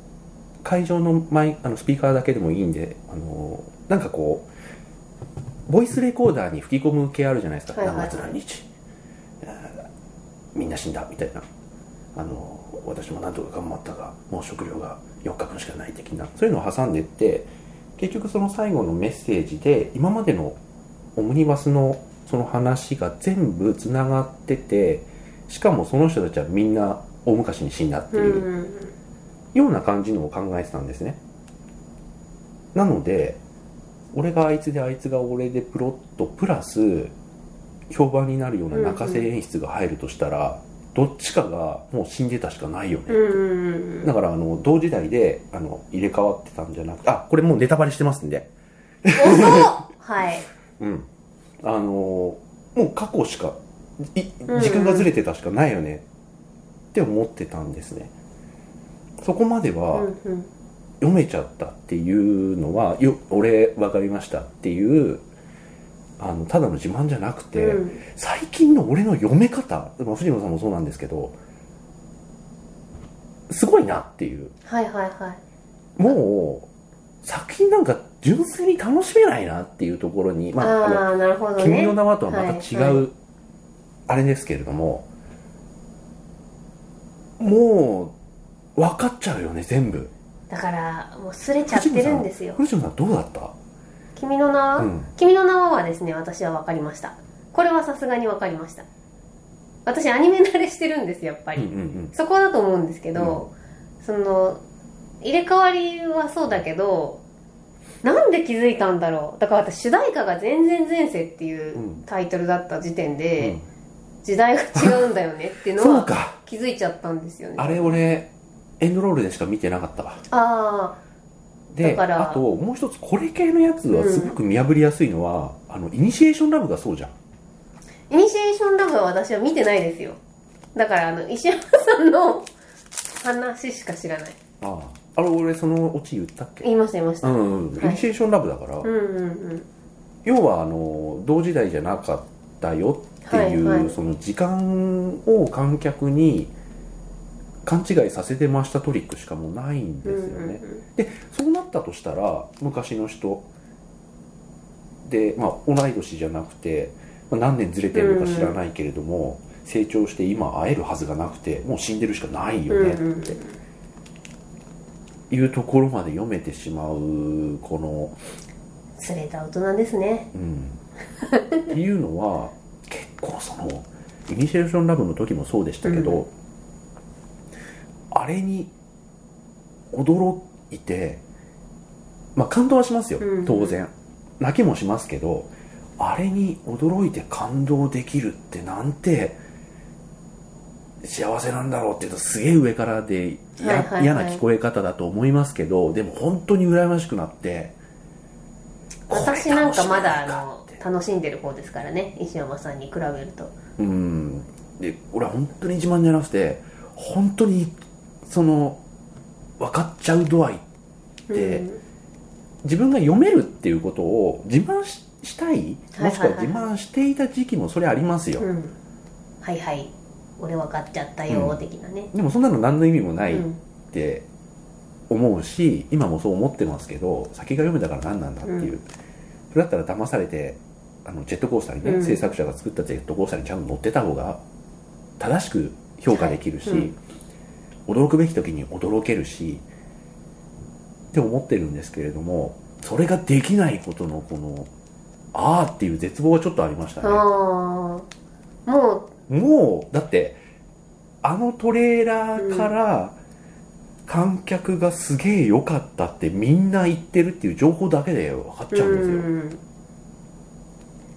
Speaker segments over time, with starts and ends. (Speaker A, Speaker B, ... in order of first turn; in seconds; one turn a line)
Speaker A: 0.6-4.5
Speaker A: 5.7-8.7
Speaker B: 7.7-8.4
Speaker A: 9.4-9.8
Speaker A: 10.5-11.4
Speaker A: 12.1-20.6
Speaker A: 21.1-28.5
Speaker B: 28.1-28.9
Speaker A: 29.5-31.2
Speaker A: 32.7-33.4
Speaker A: 34.1-37.1
Speaker A: 37.9-43.4
Speaker B: 38.7-39.2
Speaker B: 43.1-44.1
Speaker A: 44.0-48.5
Speaker A: 49.0-49.8
Speaker B: 49.1-50.5
Speaker A: 50.8-51.1
Speaker A: 51.6-56.0
Speaker B: 54.5-55.1
Speaker A: 56.9-58.1
Speaker A: 59.2-60.1
Speaker B: 59.9-60.5
Speaker A: 61.0-65.2
Speaker A: 66.2-71.3
Speaker B: 67.5-68.0
Speaker A: 73.5-74.5
Speaker B: 74.7-75.4
Speaker A: 76.0-76.7
Speaker A: 77.2-81.0
Speaker B: 80.6-83.0
Speaker A: 81.6-83.1
Speaker A: 84.1-85.1
Speaker A: 87.4-88.1
Speaker A: 88.8-90.1
Speaker B: 90.5-92.6
Speaker A: 91.7-93.5
Speaker B: 94.2-98.8
Speaker A: 94.8-95.1
Speaker B: 99.8-104.6
Speaker A: 101.6-102.1
Speaker A: 103.2-103.4
Speaker B: 105.2-107.2
Speaker B: 108.0-113.6
Speaker A: 111.7-112.0
Speaker A: 113.4-113.6
Speaker B: 114.2-118.0
Speaker A: 114.7-115.0
Speaker A: 115.8-116.4
Speaker A: 117.6-120.2
Speaker B: 120.3-121.0
Speaker A: 121.7-127.1
Speaker B: 121.8-122.4
Speaker B: 123.9-124.4
Speaker B: 128.1-130.2
Speaker B: 130.7-132.5
Speaker B: 133.2-134.4
Speaker A: 134.6-136.7
Speaker B: 136.6-138.0
Speaker A: 137.2-138.9
Speaker B: 138.8-139.7
Speaker A: 140.2-146.5
Speaker B: 143.2-143.9
Speaker A: 147.6-153.5
Speaker B: 150.0-150.8
Speaker A: 155.0-163.4
Speaker B: 157.9-158.6
Speaker B: 162.7-163.6
Speaker A: 165.3-168.2
Speaker B: 169.0-170.3
Speaker A: 170.3-170.8
Speaker B: 171.2-171.7
Speaker A: 171.7-176.3
Speaker B: 175.8-176.2
Speaker A: 178.1-178.7
Speaker A: 179.9-181.2
Speaker A: 182.3-189.4
Speaker B: 183.2-183.8
Speaker A: 191.0-197.8
Speaker B: 193.6-194.4
Speaker A: 199.1-200.8
Speaker B: 199.1-203.5
Speaker A: 203.8-207.7
Speaker A: 208.2-208.8
Speaker A: 209.6-210.6
Speaker B: 211.3-211.8
Speaker A: 211.3-211.6
Speaker A: 212.6-218.5
Speaker B: 215.9-216.7
Speaker B: 218.4-218.8
Speaker B: 219.4-222.1
Speaker A: 221.3-224.2
Speaker B: 223.3-223.6
Speaker A: 225.1-228.8
Speaker B: 228.4-228.7
Speaker A: 229.5-234.4
Speaker B: 231.8-232.3
Speaker A: 235.2-236.9
Speaker B: 236.1-236.9
Speaker A: 237.9-239.6
Speaker A: 241.1-244.7
Speaker A: 245.3-247.2
Speaker B: 247.0-248.1
Speaker B: 248.7-249.1
Speaker A: 249.3-250.4
Speaker A: 251.2-253.2
Speaker B: 252.4-252.7
Speaker A: 254.1-259.3
Speaker B: 258.7-259.6